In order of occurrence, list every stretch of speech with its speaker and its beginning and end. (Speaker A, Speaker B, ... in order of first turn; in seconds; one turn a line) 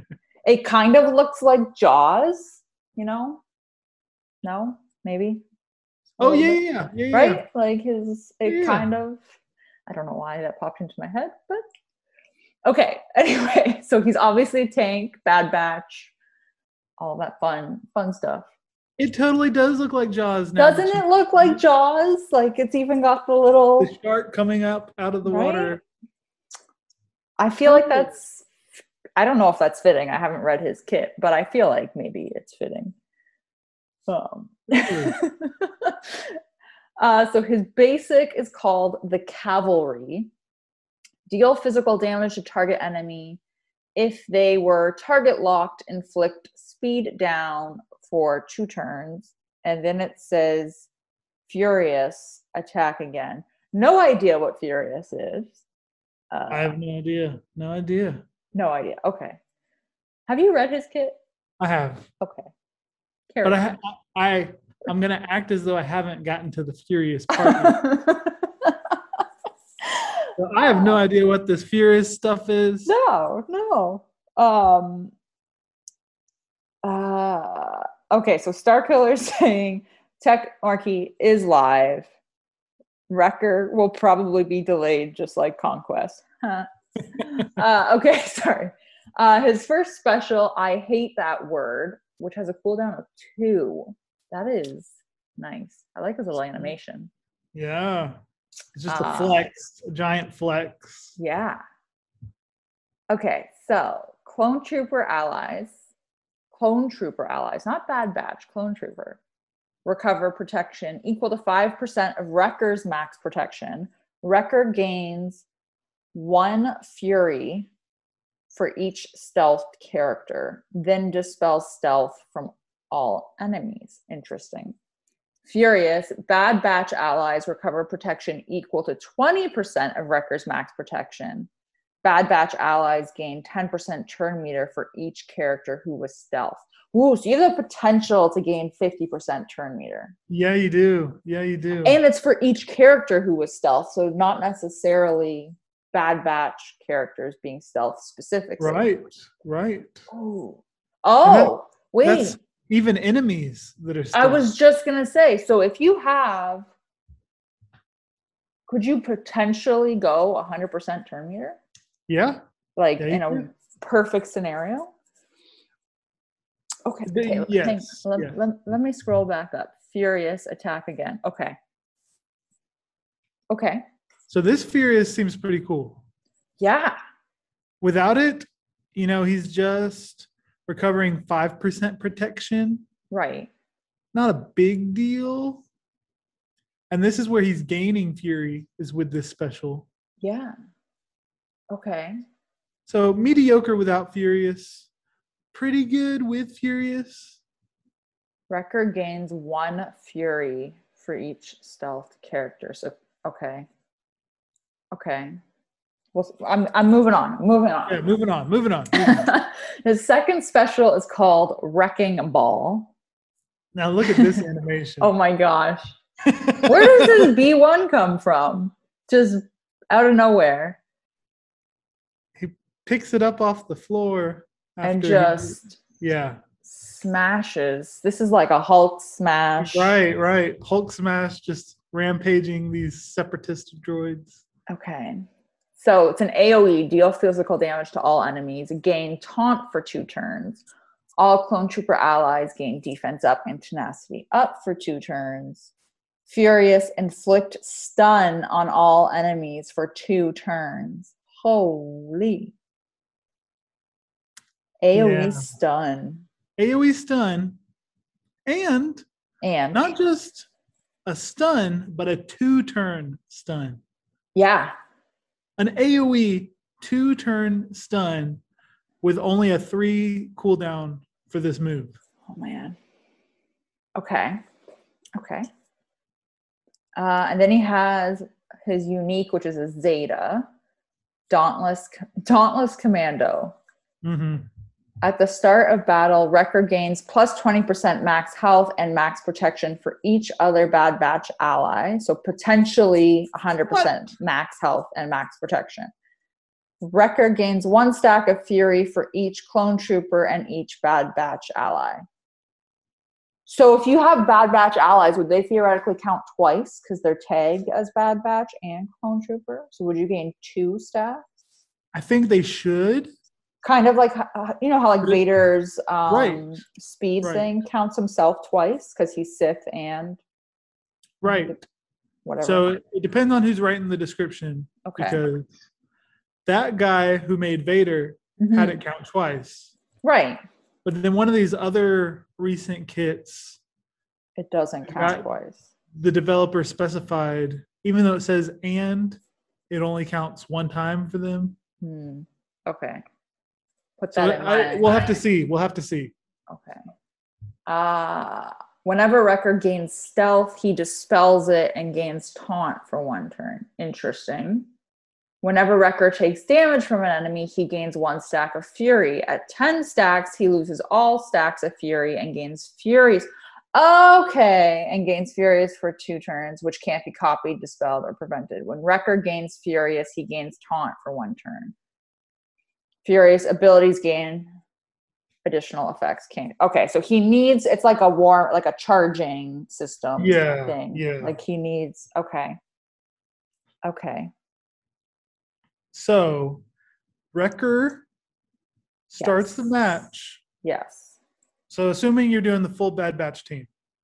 Speaker A: 0.4-3.4
Speaker A: 4.4-5.4
Speaker B: 6.2-7.4
Speaker A: 6.2-9.2
Speaker B: 8.4-8.9
Speaker A: 9.9-11.6
Speaker A: 12.6-16.1
Speaker A: 17.0-18.5
Speaker B: 19.0-21.6
Speaker A: 20.6-23.9
Speaker B: 23.8-25.8
Speaker A: 25.2-25.8
Speaker A: 27.4-28.4
Speaker B: 27.6-28.1
Speaker A: 29.2-32.9
Speaker A: 34.1-36.4
Speaker B: 34.7-35.2
Speaker A: 37.0-40.3
Speaker A: 41.3-43.4
Speaker A: 44.0-50.9
Speaker A: 51.5-55.6
Speaker A: 56.3-56.8
Speaker B: 56.5-58.2
Speaker A: 58.5-59.4
Speaker A: 60.3-61.2
Speaker B: 61.6-62.1
Speaker A: 62.2-62.5
Speaker A: 63.3-63.6
Speaker B: 63.4-67.8
Speaker A: 67.3-68.8
Speaker A: 69.9-70.3
Speaker B: 70.4-72.9
Speaker A: 72.8-75.1
Speaker A: 76.8-82.1
Speaker A: 83.1-97.1
Speaker B: 97.5-98.2
Speaker B: 98.7-101.1
Speaker A: 98.9-99.4
Speaker A: 101.2-101.6
Speaker A: 103.1-105.7
Speaker A: 106.5-109.2
Speaker A: 109.8-115.4
Speaker A: 116.1-117.7
Speaker A: 118.5-124.7
Speaker A: 125.5-131.5
Speaker A: 132.0-140.1
Speaker B: 140.3-142.0
Speaker A: 141.8-148.8
Speaker B: 148.6-150.1
Speaker A: 150.1-152.4
Speaker B: 151.2-154.5
Speaker A: 154.1-156.7
Speaker A: 158.7-161.6
Speaker B: 162.1-162.4
Speaker A: 162.8-164.9
Speaker B: 163.0-163.4
Speaker A: 166.8-171.6
Speaker B: 167.0-168.4
Speaker A: 173.5-173.8
Speaker B: 174.3-176.0
Speaker A: 176.6-176.9
Speaker B: 177.8-182.8
Speaker A: 183.1-183.5
Speaker B: 184.1-185.6
Speaker B: 186.9-189.9
Speaker A: 190.2-190.5
Speaker A: 191.7-192.2
Speaker B: 192.8-194.9
Speaker B: 195.5-197.4
Speaker A: 198.5-203.7
Speaker A: 204.9-205.4
Speaker A: 206.1-208.0
Speaker B: 207.9-209.3
Speaker A: 208.9-212.9
Speaker B: 213.7-215.1
Speaker A: 214.1-214.4
Speaker A: 215.0-215.9
Speaker B: 216.2-217.3
Speaker A: 216.6-220.8
Speaker B: 222.3-226.4
Speaker A: 224.8-225.8
Speaker A: 226.7-229.9
Speaker B: 229.6-234.4
Speaker A: 234.7-235.2
Speaker A: 235.8-240.6
Speaker A: 241.2-245.7
Speaker A: 246.3-252.5
Speaker A: 254.8-256.2
Speaker B: 254.9-255.5
Speaker B: 256.6-257.6
Speaker B: 258.4-259.0
Speaker A: 259.4-259.9
Speaker B: 259.7-260.5
Speaker B: 261.1-263.8
Speaker A: 264.3-264.7
Speaker B: 265.6-268.4
Speaker B: 269.0-272.0
Speaker A: 272.3-272.8
Speaker A: 273.9-274.4
Speaker A: 275.1-275.5
Speaker A: 276.9-280.5
Speaker A: 281.3-283.5
Speaker B: 284.0-284.5
Speaker A: 285.0-295.9
Speaker B: 293.7-294.1
Speaker A: 296.8-302.0
Speaker A: 303.4-311.2
Speaker B: 311.9-313.1
Speaker A: 313.6-320.2
Speaker B: 316.1-316.5
Speaker B: 317.2-317.5
Speaker B: 321.2-321.6
Speaker A: 321.3-321.6
Speaker A: 322.2-322.7
Speaker B: 322.4-325.5
Speaker A: 324.8-325.2
Speaker B: 326.4-329.7
Speaker A: 328.4-328.8
Speaker A: 330.0-330.4
Speaker B: 330.8-333.6
Speaker A: 334.4-335.6
Speaker B: 334.9-335.3
Speaker B: 335.9-341.6
Speaker A: 341.8-343.0
Speaker A: 344.0-344.9
Speaker B: 344.1-346.1
Speaker A: 346.5-346.8
Speaker A: 347.7-354.7
Speaker A: 355.4-371.7
Speaker A: 373.0-374.5
Speaker A: 375.4-382.6
Speaker B: 380.2-381.4
Speaker A: 383.8-384.3
Speaker B: 385.9-386.6
Speaker B: 387.3-388.0
Speaker B: 389.1-390.4
Speaker A: 389.2-389.7
Speaker A: 390.6-391.1
Speaker B: 391.7-393.7